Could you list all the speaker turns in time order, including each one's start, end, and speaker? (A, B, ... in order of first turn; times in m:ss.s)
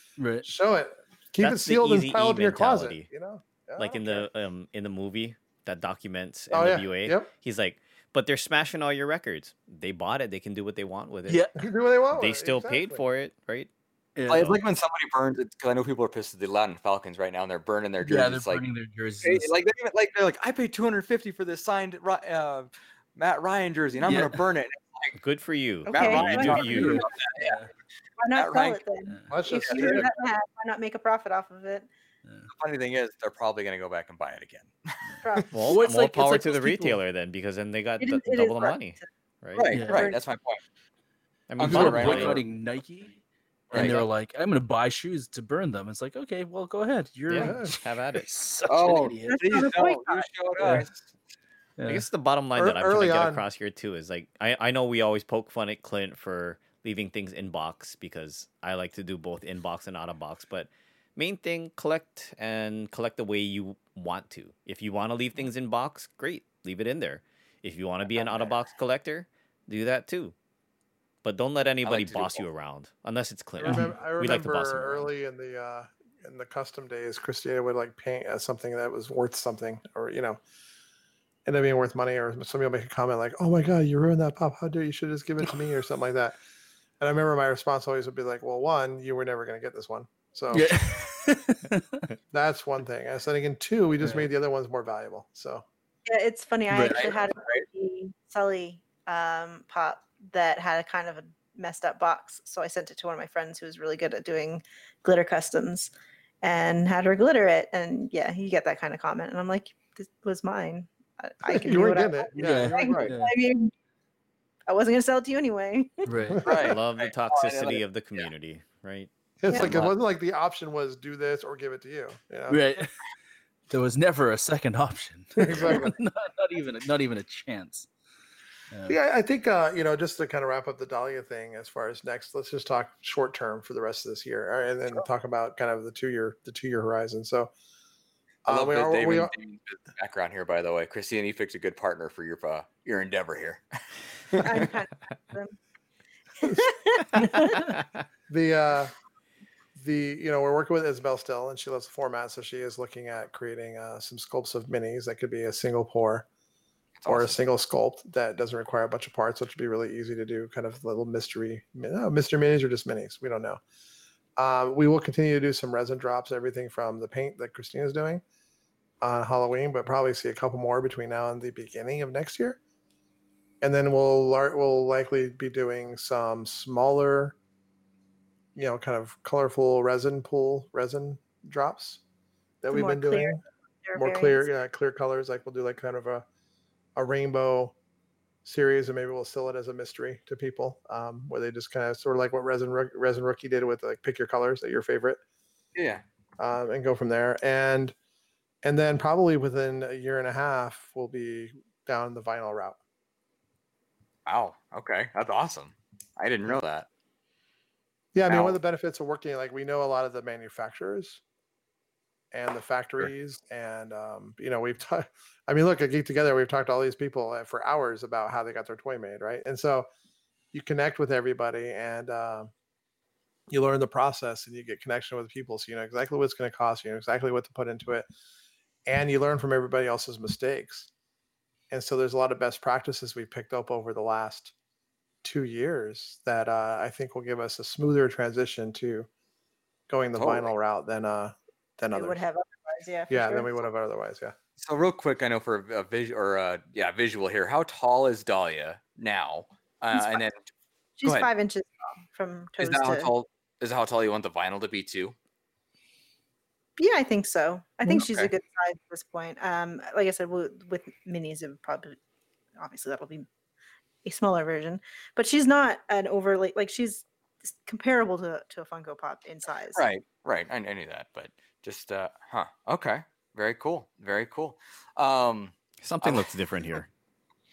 0:00.2-0:00.5 A
0:00.4-0:04.3 B
0:01.4-0:03.1 C
0:03.8-0:11.4 C
0:06.5-0:07.3 B
0:11.3-0:11.6 A
0:11.6-0:13.0 B
0:12.1-0:13.7 C
0:14.2-0:14.6 A
0:14.3-0:18.6 D
0:18.0-0:19.5 A
0:19.2-0:25.2 D
0:24.0-0:24.4 A
0:25.2-0:27.1 C
0:25.9-0:27.1 E
0:25.9-0:27.6 D
0:26.4-0:27.7 A
0:28.2-0:31.9 E
0:28.3-0:28.8 D
0:29.3-0:30.1 B
0:29.6-0:30.1 D
0:32.5-0:35.4 D
0:35.2-0:35.8 E
0:35.5-0:39.8 C
0:35.7-0:37.0 A
0:38.0-0:39.1 E
0:39.6-0:40.6 D
0:39.7-0:40.1 A
0:39.9-0:40.2 E
0:41.5-0:42.4 C
0:41.6-0:42.4 D
0:41.6-0:43.2 A
0:43.7-0:44.0 D
0:43.7-0:49.4 A
0:47.3-0:48.3 C
0:47.3-0:47.7 B
0:48.7-0:51.1 D
0:49.3-0:50.3 E
0:50.6-0:50.9 A
0:51.8-0:52.1 A
0:51.9-1:10.3 C
0:52.6-0:53.4 B
1:08.2-1:08.6 D
1:11.2-1:15.1 C
1:11.8-1:12.4 D
1:13.6-1:20.4 B
1:21.5-1:26.4 B
1:27.0-1:30.7 B
1:30.5-1:32.1 A
1:32.3-1:35.6 B
1:34.0-1:34.3 A
1:36.1-1:53.7 E
1:36.7-1:37.1 A
1:36.9-1:37.6 D
1:51.5-1:53.1 B
1:52.4-1:53.3 A
1:52.9-1:53.2 D
1:54.7-1:56.1 E
1:56.1-1:56.4 A
1:56.3-1:56.8 B
1:56.4-1:58.3 D
1:56.6-2:00.0 C
1:59.4-2:02.6 B
1:59.5-1:59.7 E
2:02.5-2:02.9 A
2:03.7-2:07.9 A
2:05.4-2:06.0 B
2:08.7-2:09.0 A
2:08.9-2:17.5 B
2:18.5-2:19.3 B
2:18.5-2:23.6 D
2:24.3-2:24.7 D
2:24.4-2:25.6 E
2:26.4-2:27.7 E
2:28.3-2:28.9 B
2:29.8-2:36.3 B
2:37.0-2:37.4 D
2:37.1-2:43.6 B
2:44.4-2:48.2 B
2:49.0-2:52.6 B
2:53.6-2:57.4 B
2:58.6-3:02.0 B
3:02.6-3:03.4 B
3:02.7-3:04.5 E
3:04.0-3:06.3 B
3:07.0-3:07.8 B
3:08.4-3:15.2 B
3:15.8-3:16.0 D
3:16.4-3:18.0 B
3:18.6-3:22.8 B
3:24.3-3:26.9 D
3:28.1-3:31.2 B
3:28.3-3:28.6 D
3:32.3-3:39.9 B
3:40.5-3:42.5 B
3:43.5-3:48.1 B
3:48.9-3:50.9 B
3:51.7-3:54.5 B
3:55.2-3:59.1 B
3:59.9-4:02.2 B
4:00.2-4:00.5 D
4:01.9-4:03.6 E
4:03.1-4:04.4 B
4:04.6-4:10.5 D
4:09.9-4:10.2 E
4:11.0-4:13.1 E
4:11.0-4:11.3 D
4:12.6-4:15.2 D
4:16.8-4:22.0 E
4:17.9-4:18.3 D
4:22.6-4:23.3 E
4:24.0-4:29.8 E
4:29.8-4:36.3 D
4:35.8-4:36.9 C